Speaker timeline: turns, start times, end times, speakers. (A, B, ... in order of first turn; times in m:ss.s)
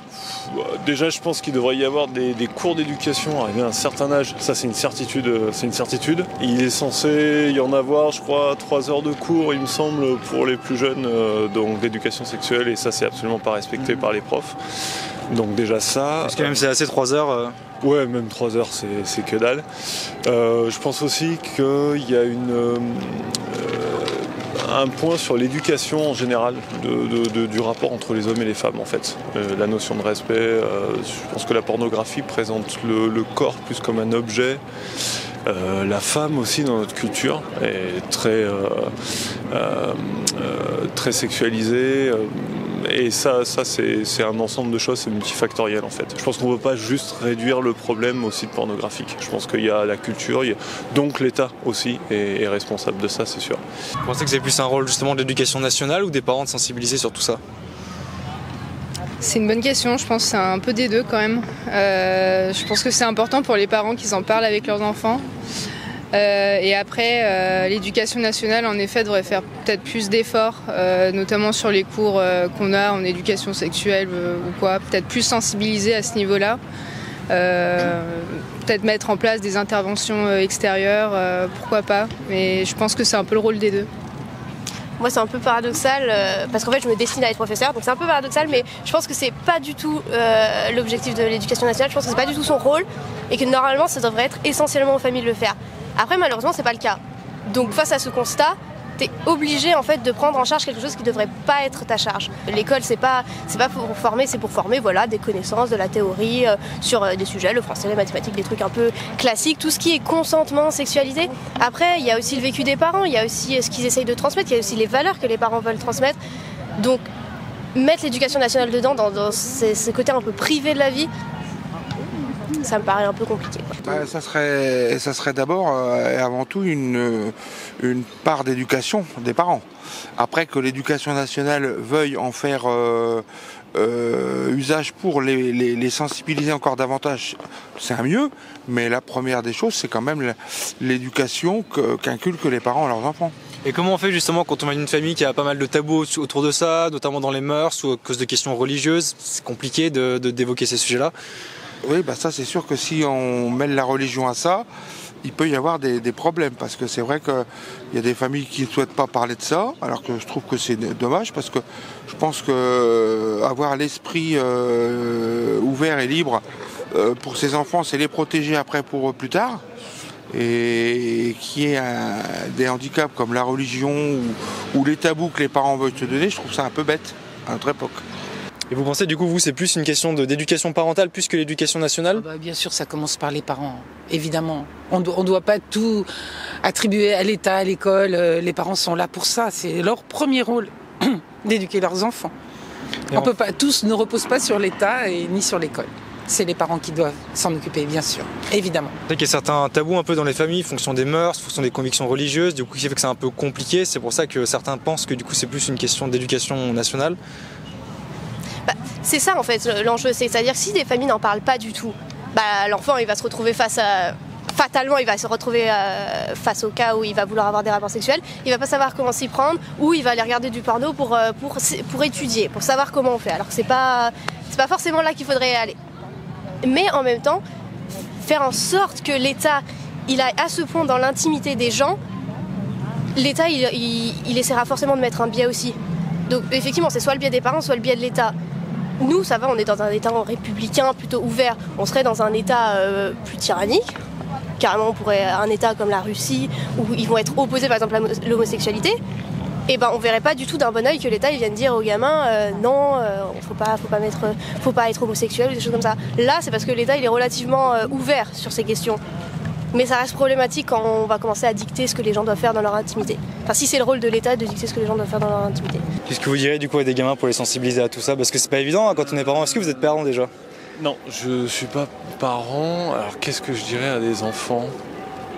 0:00.2-0:14.6 A
0:15.3-0:16.6 A
0:16.2-0:17.6 B
0:17.8-0:19.6 A
0:20.2-0:34.6 A
0:35.4-0:38.9 A
0:39.5-0:53.6 A
0:54.0-0:57.4 B
0:59.2-1:05.2 C
1:06.1-1:16.6 C
1:17.3-1:23.9 C
1:25.0-1:56.2 D
1:56.8-1:57.0 D
1:57.7-2:01.1 D
2:02.6-2:04.0 D
2:03.8-2:09.6 E
2:10.2-2:23.3 E
2:23.6-2:31.1 B
2:31.8-2:34.7 E
2:35.2-2:49.6 E
2:50.3-2:58.0 E
2:58.7-3:02.2 B
3:02.1-3:06.1 F
3:06.6-3:12.3 F
3:13.1-3:18.9 F
3:19.1-3:27.2 B
3:28.6-3:45.8 D
3:46.6-3:47.4 D
3:48.2-3:52.0 D
3:53.1-3:55.8 D
3:56.3-3:58.3 D
3:59.0-4:03.9 D
4:04.6-4:09.0 D
4:09.7-4:19.0 D
4:19.7-4:25.8 D
4:26.1-4:30.3 B
4:30.8-4:34.8 A